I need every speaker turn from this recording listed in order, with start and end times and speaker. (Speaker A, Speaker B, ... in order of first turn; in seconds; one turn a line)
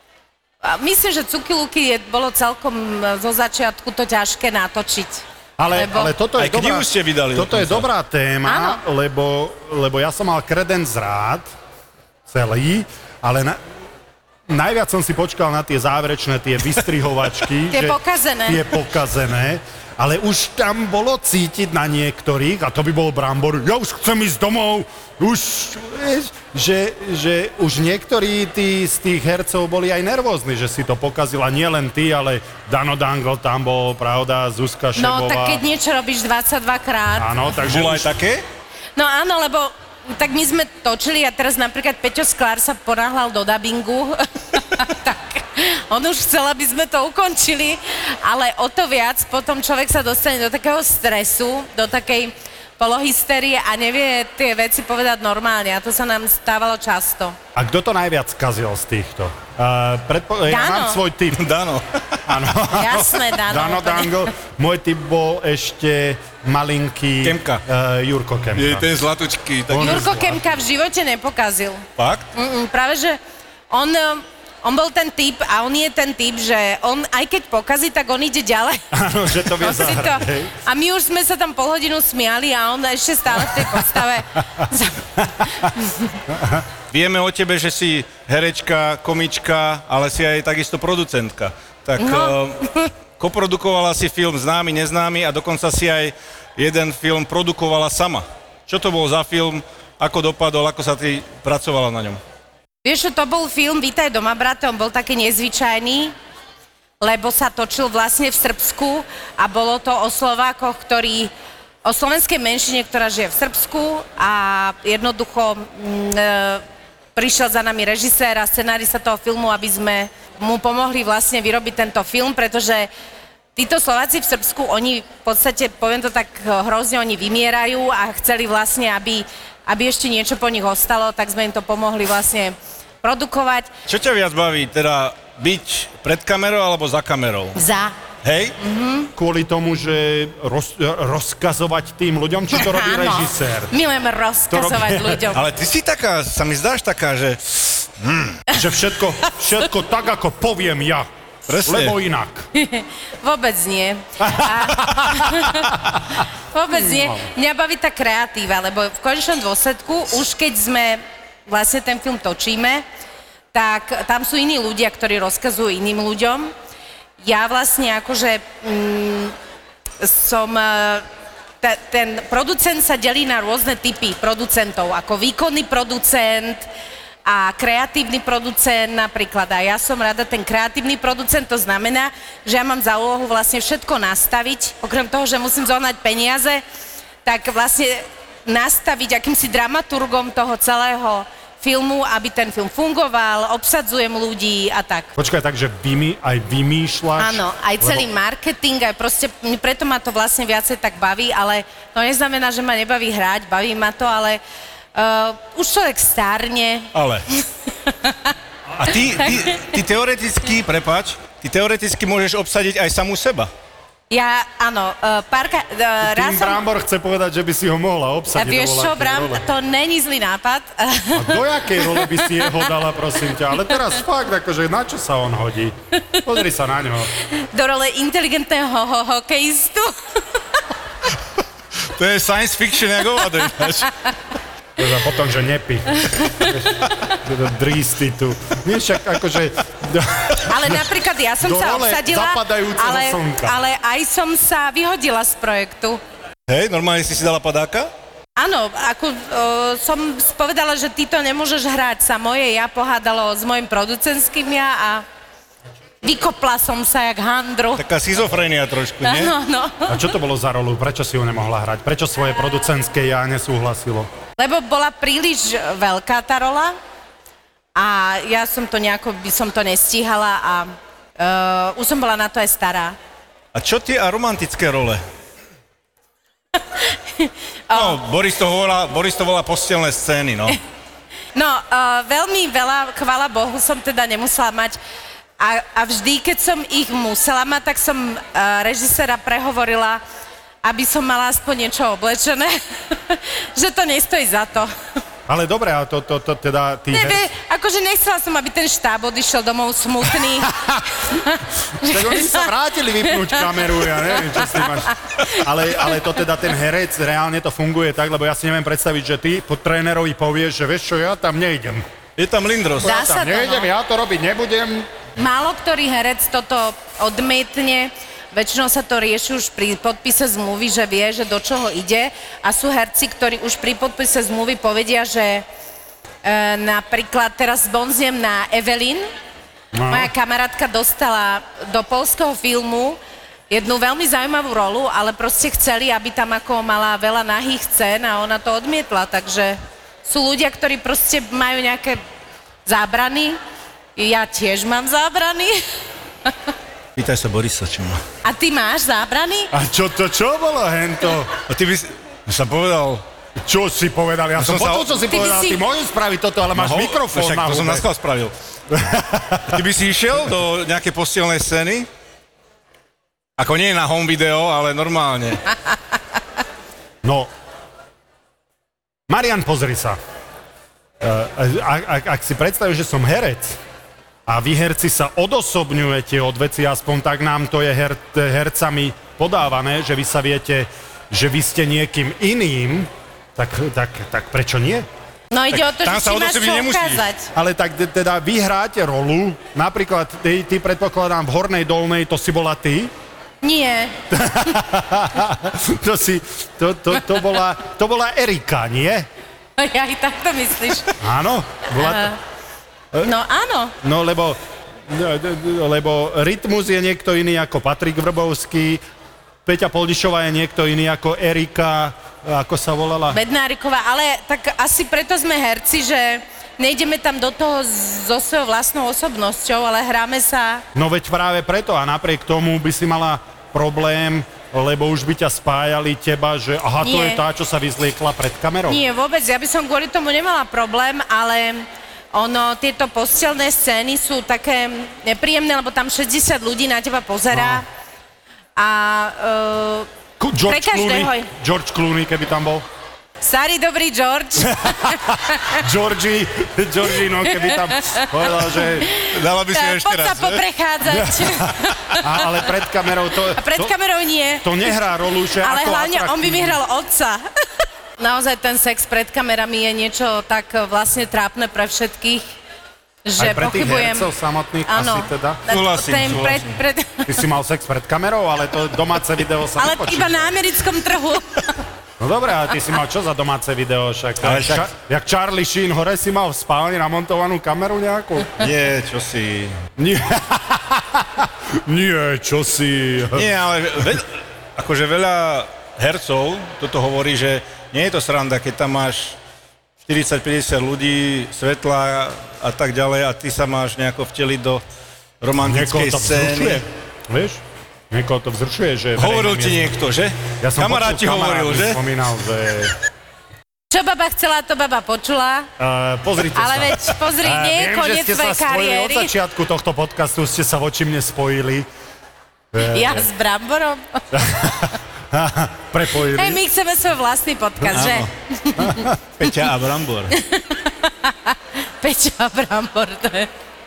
Speaker A: 0.6-6.1
Speaker B: 5.6-11.5
Speaker C: 6.4-7.9
Speaker A: 8.5-8.8
Speaker B: 12.3-13.6
Speaker B: 14.5-35.6
Speaker A: 17.7-18.6
Speaker A: 35.0-37.3
Speaker B: 37.1-38.2
Speaker C: 37.7-38.4
Speaker A: 39.0-57.4
Speaker B: 57.5-61.4
Speaker A: 60.5-61.0
Speaker C: 61.3-62.2
Speaker B: 62.3-68.9
Speaker A: 62.7-64.3
Speaker C: 67.2-67.6
Speaker C: 68.5-70.1
Speaker B: 69.7-70.4
Speaker A: 69.8-71.8
Speaker C: 72.0-72.3
Speaker A: 72.3-73.2
Speaker A: 73.7-78.8
Speaker B: 78.9-80.6
Speaker A: 79.6-86.2
Speaker B: 86.3-86.6
Speaker C: 86.9-102.2
Speaker A: 92.0-92.9
Speaker A: 102.8-106.1
Speaker A: 107.0-111.3
Speaker A: 111.8-116.6
Speaker A: 117.2-122.9
Speaker A: 123.6-133.7
Speaker C: 133.9-137.6
Speaker A: 137.6-137.9
Speaker C: 138.2-138.6
Speaker A: 138.6-139.1
Speaker B: 139.2-143.7
Speaker A: 142.6-145.4
Speaker B: 144.5-145.2
Speaker C: 145.3-148.4
Speaker B: 148.5-151.1
Speaker C: 151.5-151.9
Speaker B: 151.7-152.5
Speaker A: 152.6-155.7
Speaker B: 154.4-156.2
Speaker A: 156.5-162.8
Speaker B: 156.8-157.2
Speaker A: 163.5-166.5
Speaker A: 167.2-169.3
Speaker A: 170.0-171.1
Speaker A: 171.6-176.7
Speaker A: 177.2-186.6
Speaker A: 187.2-195.1
Speaker B: 195.2-198.1
Speaker A: 197.2-204.4
Speaker A: 204.9-206.9
Speaker C: 206.9-207.3
Speaker A: 207.9-208.3
Speaker C: 208.8-213.5
Speaker B: 208.8-209.2
Speaker A: 214.1-216.6
Speaker B: 216.0-219.4
Speaker A: 218.4-222.6
Speaker B: 221.1-227.1
Speaker A: 227.3-229.9
Speaker C: 232.0-233.9
Speaker B: 234.8-240.9
Speaker A: 240.5-246.0
Speaker B: 241.4-243.6
Speaker C: 246.5-247.9
Speaker A: 248.4-255.1
Speaker A: 256.0-257.8
Speaker C: 257.8-259.4
Speaker A: 259.0-260.0
Speaker B: 259.9-264.1
Speaker A: 264.4-266.8
Speaker A: 267.8-273.0
Speaker C: 273.5-275.0
Speaker A: 276.7-278.0
Speaker C: 277.7-280.6
Speaker A: 281.4-284.8
Speaker A: 285.4-290.0
Speaker A: 290.6-294.7
Speaker B: 295.3-297.2
Speaker A: 296.9-302.5
Speaker B: 300.4-300.8
Speaker B: 301.8-311.9
Speaker A: 303.2-305.4
Speaker C: 312.2-312.9
Speaker B: 312.8-314.9
Speaker A: 312.8-313.7
Speaker A: 315.2-325.4
Speaker A: 326.2-329.1
Speaker B: 329.7-330.1
Speaker A: 329.9-333.0
Speaker A: 333.5-342.0
Speaker A: 342.7-343.4
Speaker A: 344.0-345.6
Speaker C: 347.0-348.0
Speaker A: 348.2-349.5
Speaker B: 349.5-351.3
Speaker C: 351.5-353.0
Speaker B: 353.4-357.9
Speaker C: 354.4-354.9
Speaker A: 355.1-355.6
Speaker C: 356.6-358.3
Speaker B: 358.7-359.6
Speaker C: 359.5-361.9
Speaker C: 363.4-365.4
Speaker B: 367.0-367.3
Speaker B: 369.1-370.0
Speaker B: 371.0-373.6
Speaker B: 374.3-384.9
Speaker A: 385.3-387.3
Speaker C: 385.5-387.1
Speaker B: 387.3-392.9
Speaker A: 393.4-394.0
Speaker B: 394.1-399.1
Speaker A: 399.6-400.9
Speaker B: 401.0-402.1
Speaker A: 401.8-402.2
Speaker A: 403.0-403.7
Speaker B: 403.8-408.8
Speaker B: 409.5-413.2
Speaker A: 413.1-420.6
Speaker B: 420.8-428.8
Speaker A: 426.8-427.2
Speaker A: 428.7-437.7
Speaker B: 437.3-437.6
Speaker A: 438.6-439.9
Speaker B: 440.2-442.7
Speaker A: 440.4-441.3
Speaker A: 443.2-445.6
Speaker B: 444.5-448.9
Speaker A: 447.2-452.3
Speaker C: 449.1-450.4
Speaker B: 450.9-453.7
Speaker A: 453.4-454.7
Speaker B: 454.4-456.6
Speaker A: 455.4-457.2
Speaker A: 458.0-462.3
Speaker A: 463.1-464.1
Speaker B: 463.2-465.4
Speaker A: 464.7-467.2
Speaker C: 465.5-466.6
Speaker B: 467.1-470.3
Speaker A: 469.6-471.5
Speaker B: 472.0-478.4
Speaker C: 474.2-474.6
Speaker C: 478.4-479.6
Speaker B: 479.8-483.3
Speaker C: 483.1-489.2
Speaker C: 489.9-494.6
Speaker C: 495.2-496.6
Speaker B: 495.4-499.8
Speaker C: 499.0-501.8
Speaker B: 500.4-502.8
Speaker A: 503.7-505.5
Speaker B: 505.6-511.7
Speaker A: 506.4-509.1
Speaker B: 512.5-513.1
Speaker A: 512.7-514.0
Speaker B: 514.1-516.4
Speaker A: 516.1-518.9
Speaker C: 517.7-518.1
Speaker B: 518.6-519.0
Speaker C: 519.2-520.1
Speaker A: 520.1-523.3